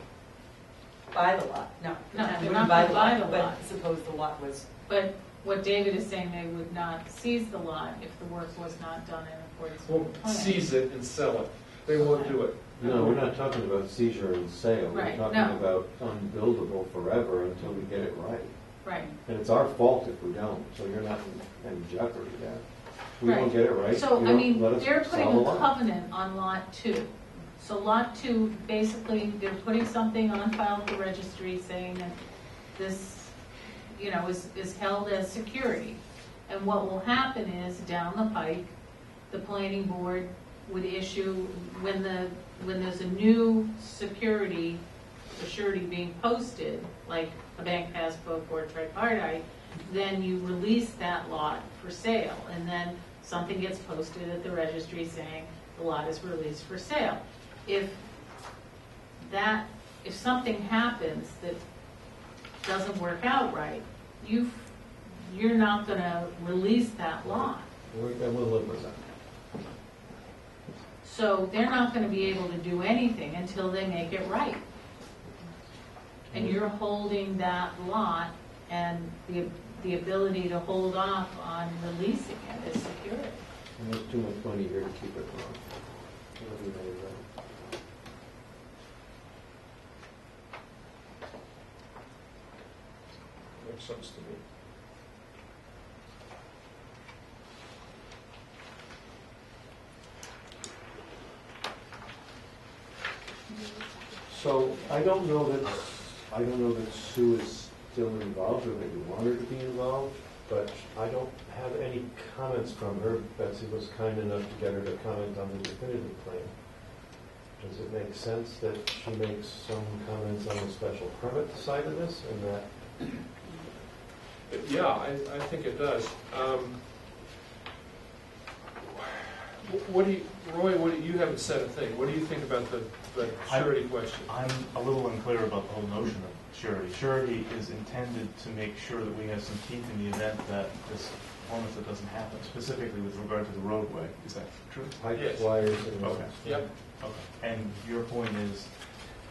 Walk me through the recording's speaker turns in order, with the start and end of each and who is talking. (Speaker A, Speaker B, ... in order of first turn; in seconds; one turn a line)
Speaker A: 1.1-4.7
Speaker B: 2.1-3.6
Speaker B: 4.9-10.6
Speaker C: 9.8-13.3
Speaker B: 12.0-12.4
Speaker D: 12.8-25.7
Speaker B: 14.9-15.6
Speaker B: 18.8-19.1
Speaker B: 23.2-32.2
Speaker B: 32.8-33.4
Speaker B: 33.9-38.7
Speaker B: 39.3-44.8
Speaker B: 45.4-58.0
Speaker B: 59.2-61.6
Speaker B: 62.6-67.7
Speaker D: 67.2-69.0
Speaker B: 71.0-74.6
Speaker D: 76.3-76.6
Speaker B: 76.3-83.4
Speaker D: 83.8-87.3
Speaker C: 93.6-94.4
Speaker D: 104.3-123.2
Speaker C: 124.5-127.2
Speaker C: 129.6-134.3
Speaker E: 133.4-145.0
Speaker D: 145.0-146.7
Speaker C: 145.1-145.7
Speaker E: 145.8-148.8
Speaker C: 146.4-146.7